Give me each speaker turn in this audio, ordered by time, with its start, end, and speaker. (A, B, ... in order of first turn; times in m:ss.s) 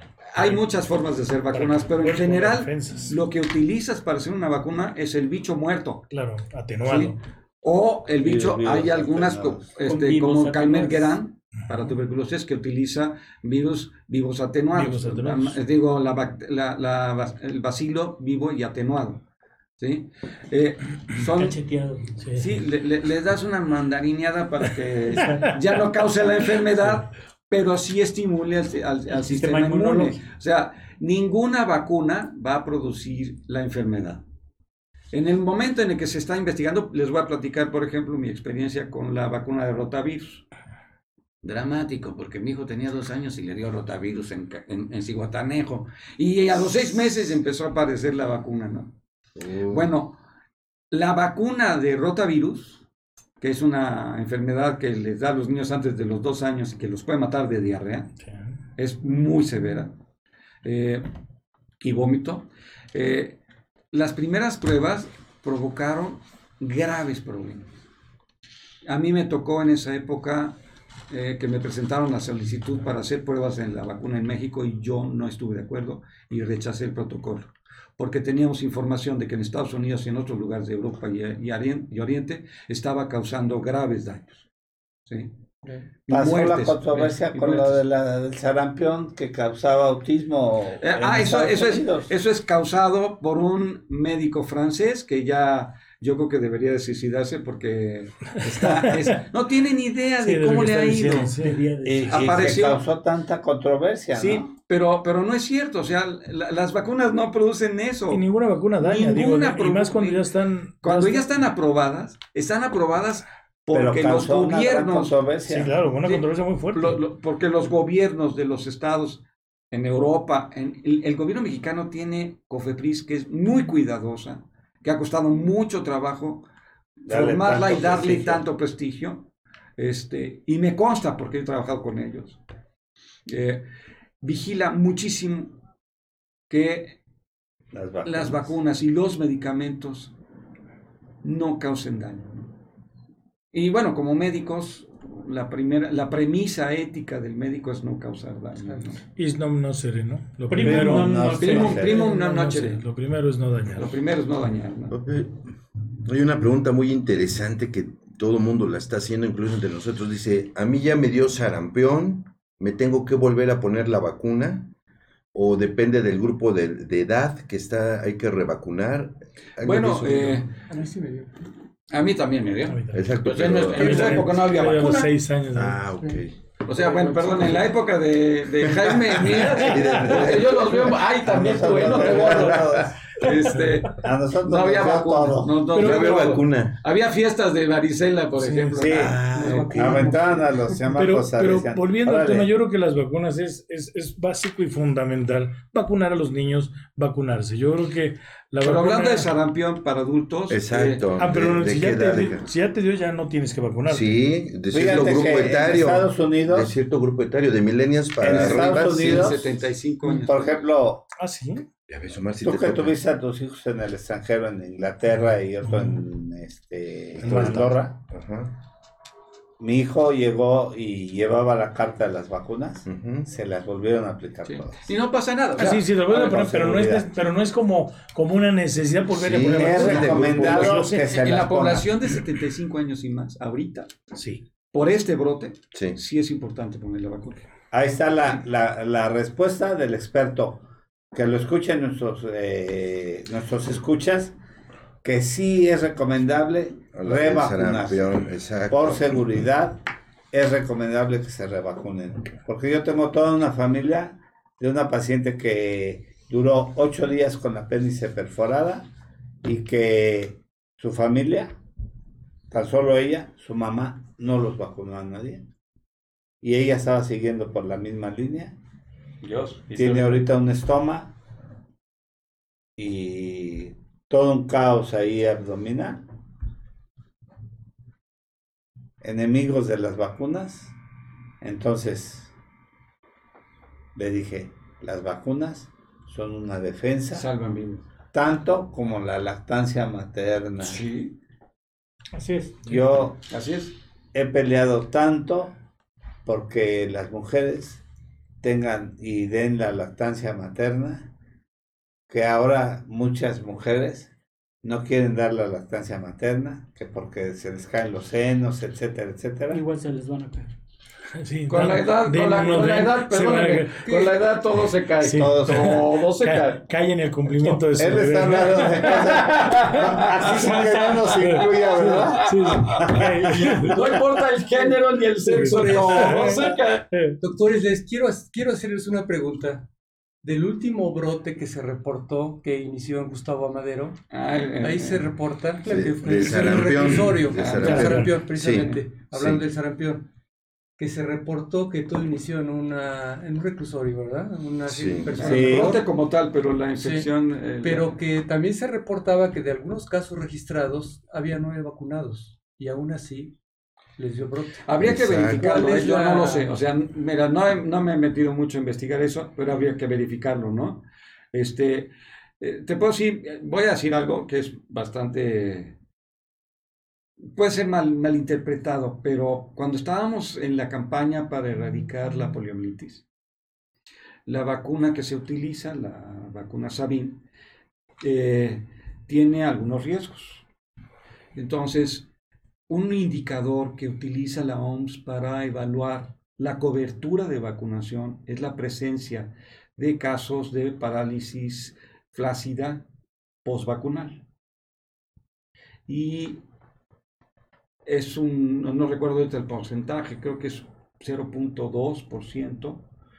0:00.3-0:06.1 A
0:01.5-0:03.2 B
0:06.1-0:07.2 B
0:06.8-0:19.2 A
0:08.2-0:09.7 C
0:09.9-0:11.2 D
0:14.7-0:15.6 B
0:19.8-0:21.6 A
0:21.4-0:22.2 D
0:22.2-0:22.6 B
0:22.4-0:34.2 A
0:25.2-0:25.6 B
0:29.2-0:30.2 D
0:35.1-0:40.5 A
0:41.4-0:48.9 A
0:49.4-0:49.9 E
0:49.7-0:50.2 A
0:50.9-0:52.8 A
0:53.4-0:58.1 A
0:58.2-0:58.6 B
0:58.8-0:59.9 A
1:00.6-1:01.1 A
1:01.8-1:03.4 A
1:03.9-1:07.7 A
1:08.9-1:10.6 A
1:11.1-1:24.5 A
1:25.1-1:25.3 A
1:26.1-1:27.8 A
1:26.1-1:32.1 C
1:30.8-1:41.3 A
1:38.3-1:39.2 B
1:40.2-1:41.6 B
1:41.4-1:42.2 D
1:41.8-1:44.5 C
1:42.1-1:42.8 A
1:44.1-1:48.2 A
1:48.1-1:51.3 B
1:48.8-1:50.3 A
1:50.8-1:55.2 A
1:53.7-1:55.8 C
1:55.5-1:57.0 B
1:56.0-2:06.5 A
2:07.1-2:08.4 C
2:07.1-2:12.4 A
2:13.3-2:13.6 A
2:14.2-2:15.6 A
2:16.5-2:17.0 A
2:17.7-2:18.6 C
2:18.0-2:20.1 A
2:21.2-2:22.5 A
2:23.5-2:29.0 A
2:28.6-2:28.9 F
2:29.2-2:33.9 B
2:30.5-2:32.1 D
2:30.6-2:32.0 C
2:31.4-2:32.8 A
2:33.8-2:35.0 A
2:34.9-2:35.5 E
2:36.0-2:44.7 E
2:45.3-2:50.4 E
2:49.6-2:50.6 A
2:50.7-2:51.3 F
2:51.9-2:55.1 A
2:52.7-2:55.8 B
2:52.9-2:54.2 E
2:55.5-2:56.4 E
2:56.0-2:56.2 F
2:56.7-3:09.7 A
2:56.8-2:57.6 F
2:58.6-3:02.8 E
3:01.2-3:03.0 C
3:03.3-3:03.8 B
3:03.9-3:05.7 C
3:05.8-3:06.4 B
3:05.8-3:06.8 E
3:08.4-3:09.2 B
3:08.8-3:12.5 C
3:09.3-3:10.8 F
3:10.9-3:19.3 B
3:18.6-3:21.1 A
3:20.5-3:22.5 E
3:21.2-3:24.3 B
3:23.9-3:29.4 E
3:24.7-3:26.7 C
3:28.2-3:29.4 C
3:28.2-3:30.6 A
3:30.0-3:31.0 C
3:31.2-3:31.6 B
3:31.9-3:33.0 E
3:32.4-3:38.0 C
3:35.6-3:36.0 B
3:37.2-3:38.5 E
3:37.2-3:37.8 B
3:39.6-3:44.9 C
3:42.9-3:43.3 E
3:44.4-3:45.8 A
3:45.6-3:51.1 B
3:46.1-3:47.1 C
3:49.1-3:50.8 E
3:49.4-3:51.9 C
3:50.4-3:54.0 A
3:54.2-3:54.4 B
3:54.7-3:57.4 A
3:57.7-4:04.4 C
4:05.0-4:09.8 C
4:06.9-4:09.2 E
4:10.3-4:18.9 C
4:19.4-4:21.6 C
4:22.5-4:25.5 C
4:26.4-4:28.6 C
4:29.2-4:30.2 A
4:29.7-4:31.1 C
4:32.8-4:36.0 C
4:39.0-4:40.8 C
4:41.4-4:42.3 C
4:44.0-4:47.3 C
4:47.1-4:47.9 A
4:48.1-4:50.8 C
4:50.6-4:51.2 A
4:52.1-4:52.6 D
4:52.7-4:53.2 C
4:53.3-4:53.7 A
4:54.1-4:55.6 C
4:56.3-4:57.8 C
4:58.4-5:01.1 C
5:02.1-5:04.1 C
5:04.6-5:09.6 C
5:09.5-5:10.5 D
5:11.2-5:13.9 B
5:11.5-5:16.6 A
5:13.8-5:14.2 F
5:15.0-5:19.0 B
5:15.1-5:15.8 C
5:17.8-5:22.3 C
5:18.8-5:26.9 A
5:21.2-5:23.8 B
5:23.5-5:23.9 F
5:24.5-5:26.6 F
5:25.4-5:27.2 B
5:27.2-5:29.7 F
5:30.2-5:34.0 F
5:34.1-5:35.1 A
5:34.6-5:40.1 F
5:35.6-5:39.4 E
5:36.2-5:38.8 A
5:37.7-5:38.1 B
5:40.8-5:45.9 F
5:44.7-5:45.3 E
5:45.2-5:48.0 A
5:45.3-5:45.8 C
5:46.8-5:53.4 F
5:54.0-5:54.6 F
5:54.6-6:05.8 A
5:54.8-5:55.4 E
5:55.3-5:56.6 F
6:07.2-6:13.0 A
6:14.3-6:17.2 A
6:18.0-6:20.4 A
6:21.4-6:22.1 A
6:22.7-6:32.8 A
6:33.4-6:34.2 A
6:35.9-6:36.4 A
6:37.9-6:42.9 A